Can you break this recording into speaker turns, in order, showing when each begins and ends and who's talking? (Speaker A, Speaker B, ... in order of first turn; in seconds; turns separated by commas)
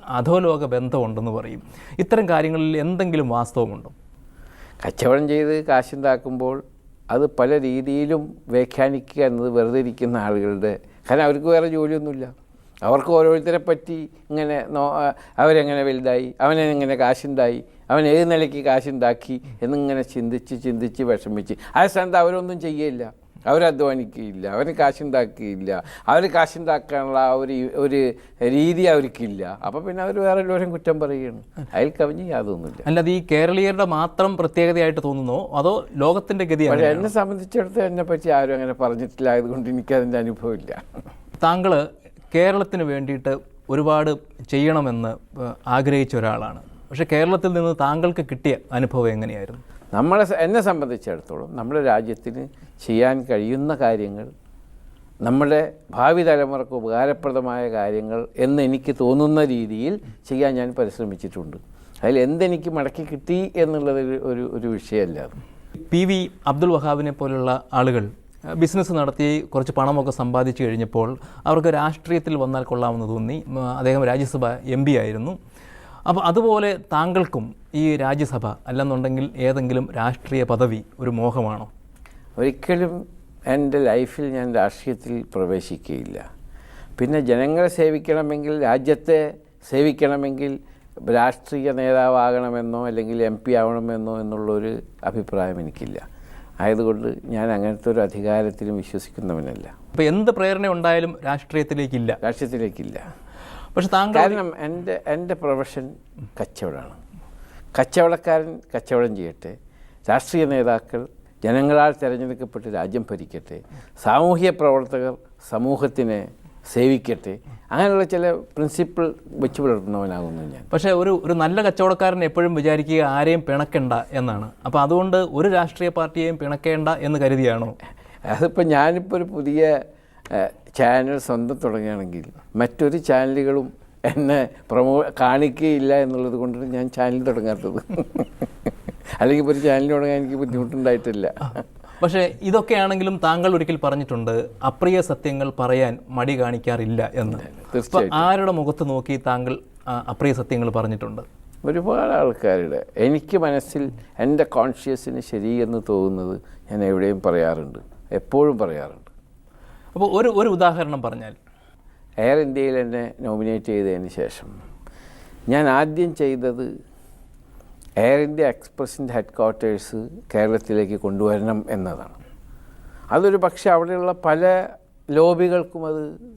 Speaker A: 0.1-3.9, Speaker B: 4.8-12.3, Speaker B: 12.8-32.9, Speaker A: 32.9-37.1, Speaker B: 36.7-40.8, Speaker A: 41.4-49.6, Speaker B: 49.9-54.3, Speaker B: 55.2-65.4, Speaker A: 65.9-75.4, Speaker A: 76.1-81.7, Speaker B: 82.4-86.2, Speaker B: 87.0-96.0, Speaker B: 96.6-99.7, Speaker A: 99.9-102.2, Speaker B: 102.2-103.0, Speaker A: 103.8-104.4, Speaker B: 104.1-107.0, Speaker B: 107.8-109.5, Speaker B: 110.1-120.7, Speaker A: 120.7-127.8, Speaker B: 128.3-129.7, Speaker B: 130.3-138.5, Speaker B: 139.2-141.5, Speaker A: 142.0-151.2, Speaker B: 147.3-148.3, Speaker B: 151.6-159.1, Speaker A: 159.9-161.3, Speaker B: 162.2-164.5, Speaker B: 165.5-166.7, Speaker B: 168.0-172.2, Speaker B: 173.1-174.6, Speaker B: 175.2-176.1